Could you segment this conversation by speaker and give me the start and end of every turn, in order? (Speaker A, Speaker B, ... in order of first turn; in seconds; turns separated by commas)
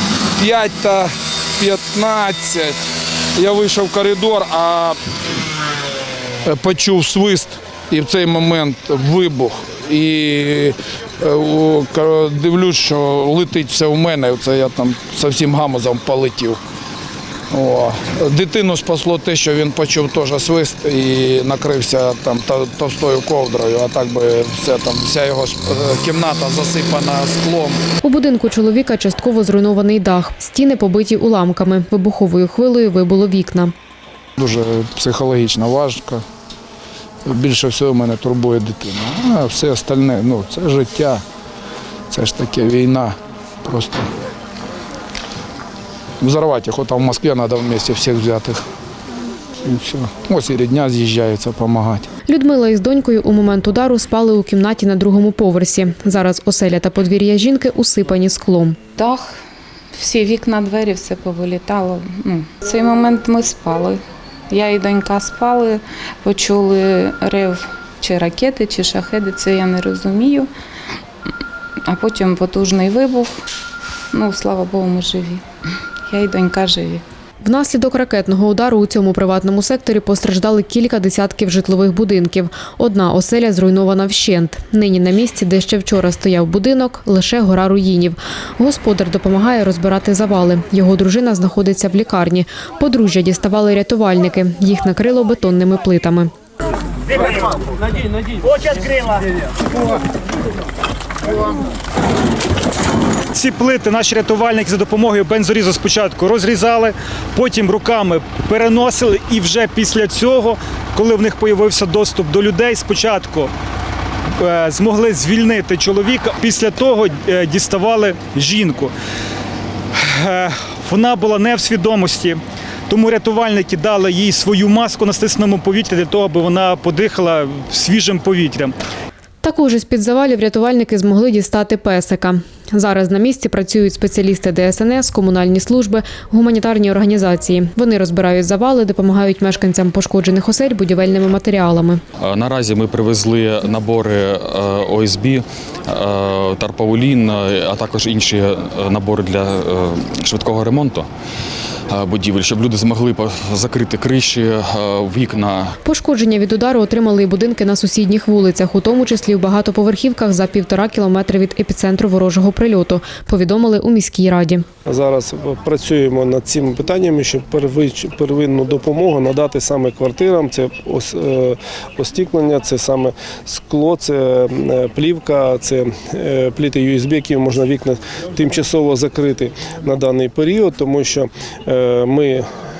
Speaker A: 0.4-2.8, Speaker A: 3.4-5.0, Speaker A: 6.4-16.6, Speaker A: 17.5-27.8, Speaker B: 28.0-33.7, Speaker A: 34.4-36.2, Speaker A: 37.2-41.2, Speaker A: 42.1-44.1, Speaker A: 46.2-48.6, Speaker A: 49.6-52.1, Speaker B: 52.3-58.8, Speaker C: 59.0-59.3, Speaker C: 59.9-70.5, Speaker C: 71.8-73.4, Speaker C: 74.1-75.5, Speaker C: 76.1-77.0, Speaker B: 77.4-96.3, Speaker D: 98.5-99.1, Speaker D: 103.3-113.5, Speaker D: 114.4-119.0, Speaker D: 119.9-128.8, Speaker B: 129.4-142.0, Speaker E: 142.2-151.1, Speaker E: 151.9-155.7, Speaker B: 155.8-164.6, Speaker F: 164.8-182.4